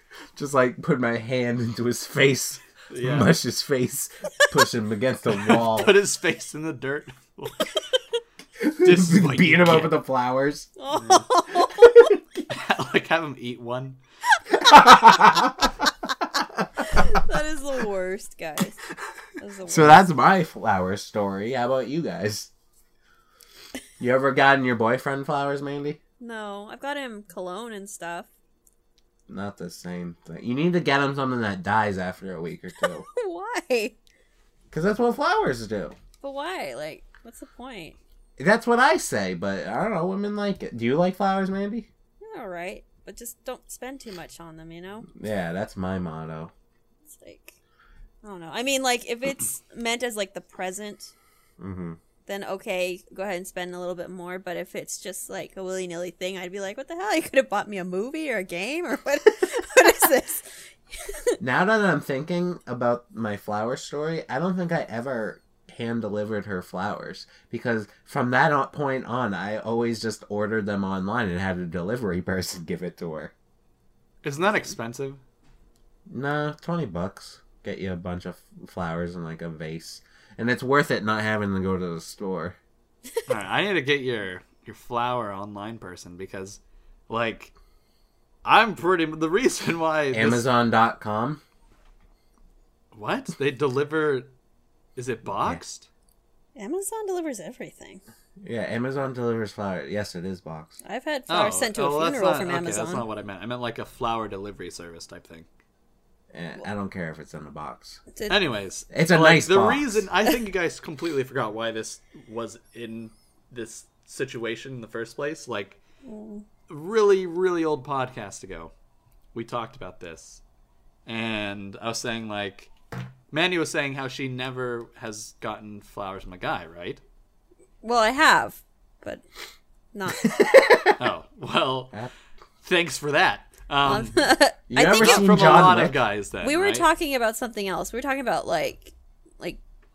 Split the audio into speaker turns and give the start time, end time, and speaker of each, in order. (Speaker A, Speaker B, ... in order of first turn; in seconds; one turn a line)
Speaker A: 0.3-5.9
Speaker B: 2.9-3.3
Speaker B: 5.4-7.8
Speaker A: 8.6-10.7
Speaker B: 8.8-9.9
Speaker C: 10.8-12.1
Speaker B: 10.9-11.3
Speaker A: 11.8-12.2
Speaker B: 12.5-14.0
Speaker A: 14.5-15.8
Speaker C: 16.8-18.8
Speaker C: 19.4-20.1
Speaker A: 19.7-22.5
Speaker A: 24.0-26.0
Speaker C: 26.2-28.3
Speaker A: 29.3-33.0
Speaker C: 32.8-33.9
Speaker A: 34.7-36.0
Speaker C: 36.2-38.0
Speaker A: 38.4-41.9
Speaker C: 42.2-45.1
Speaker A: 45.1-46.5
Speaker C: 47.1-47.5
Speaker C: 48.2-51.1
Speaker A: 51.6-52.0
Speaker C: 52.2-61.4
Speaker A: 61.4-73.3
Speaker B: 74.2-75.2
Speaker A: 76.1-82.5
Speaker B: 83.3-87.5
Speaker B: 88.4-90.4
Speaker A: 90.1-91.4
Speaker B: 92.9-94.3
Speaker B: 95.0-95.9
Speaker C: 96.5-98.0
Speaker A: 98.4-100.8
Speaker C: 100.8-103.1
Speaker B: 101.3-105.5
Speaker A: 106.3-108.0
Speaker B: 108.3-115.8
Speaker A: 108.9-110.0
Speaker C: 116.0-116.4
Speaker B: 116.7-118.7
Speaker B: 119.3-120.4
Speaker B: 121.0-122.7
Speaker B: 123.3-127.0
Speaker C: 127.8-129.2
Speaker C: 129.9-130.3
Speaker A: 130.2-130.9
Speaker B: 130.9-131.9
Speaker B: 132.6-134.1
Speaker C: 133.8-135.5
Speaker A: 134.7-136.0
Speaker B: 134.9-136.9
Speaker C: 136.4-139.6